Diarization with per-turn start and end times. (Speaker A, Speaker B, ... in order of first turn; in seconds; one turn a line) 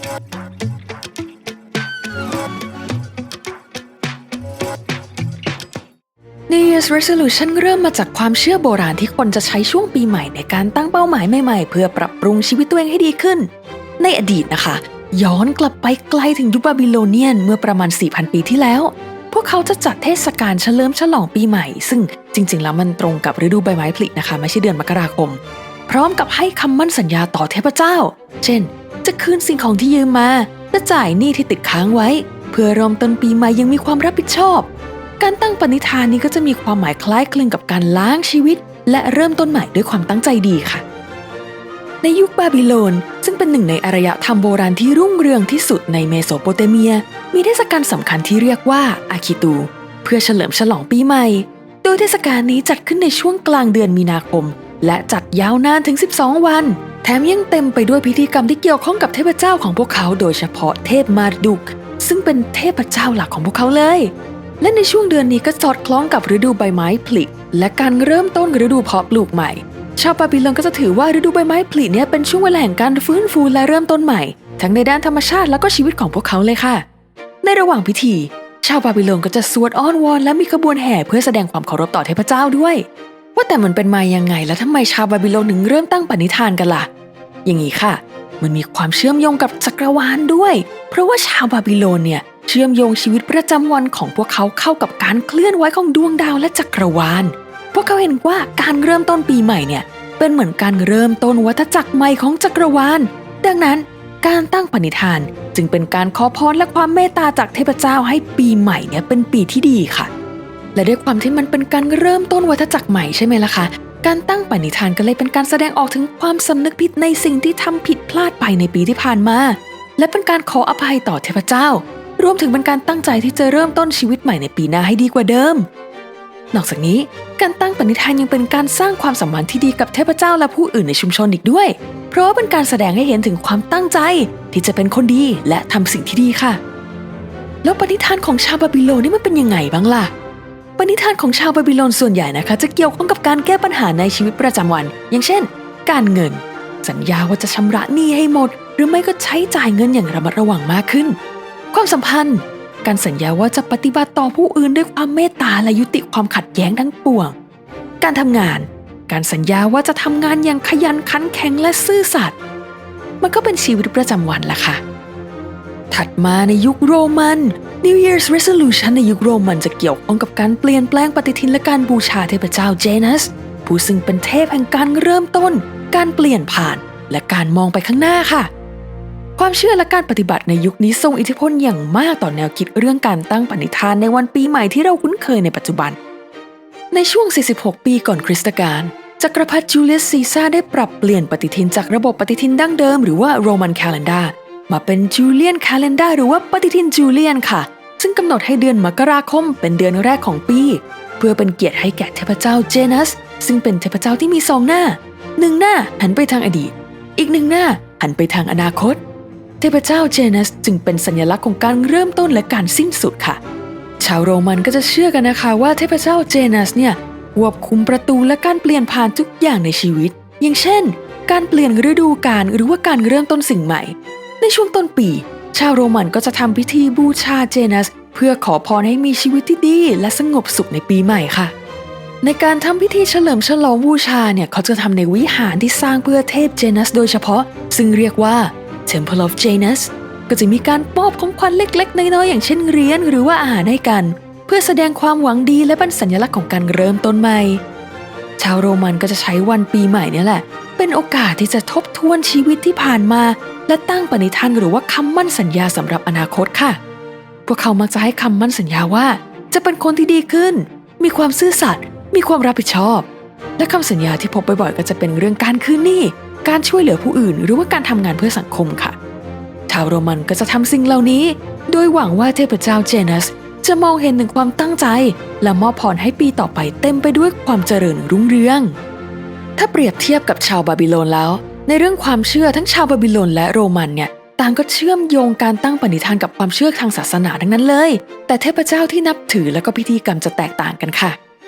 Speaker A: 6.5-40.8
Speaker A: 42.0-76.8
Speaker A: 77.4-86.9
Speaker A: 87.4-110.1
Speaker A: 110.8-125.7
Speaker A: 126.5-136.6
Speaker A: 137.6-140.1
Speaker A: 140.8-151.2
Speaker A: 151.7-157.3
Speaker A: 158.0-162.3
Speaker A: 163.2-164.8
Speaker A: 165.9-178.5
Speaker A: 179.4-186.0
Speaker A: 186.9-209.0
Speaker A: 209.6-213.4
Speaker A: 214.0-231.5
Speaker A: 232.2-247.6
Speaker A: 248.4-256.8
Speaker A: 257.4-263.1
Speaker A: 263.6-268.9
Speaker A: 269.7-278.8
Speaker A: 279.6-291.2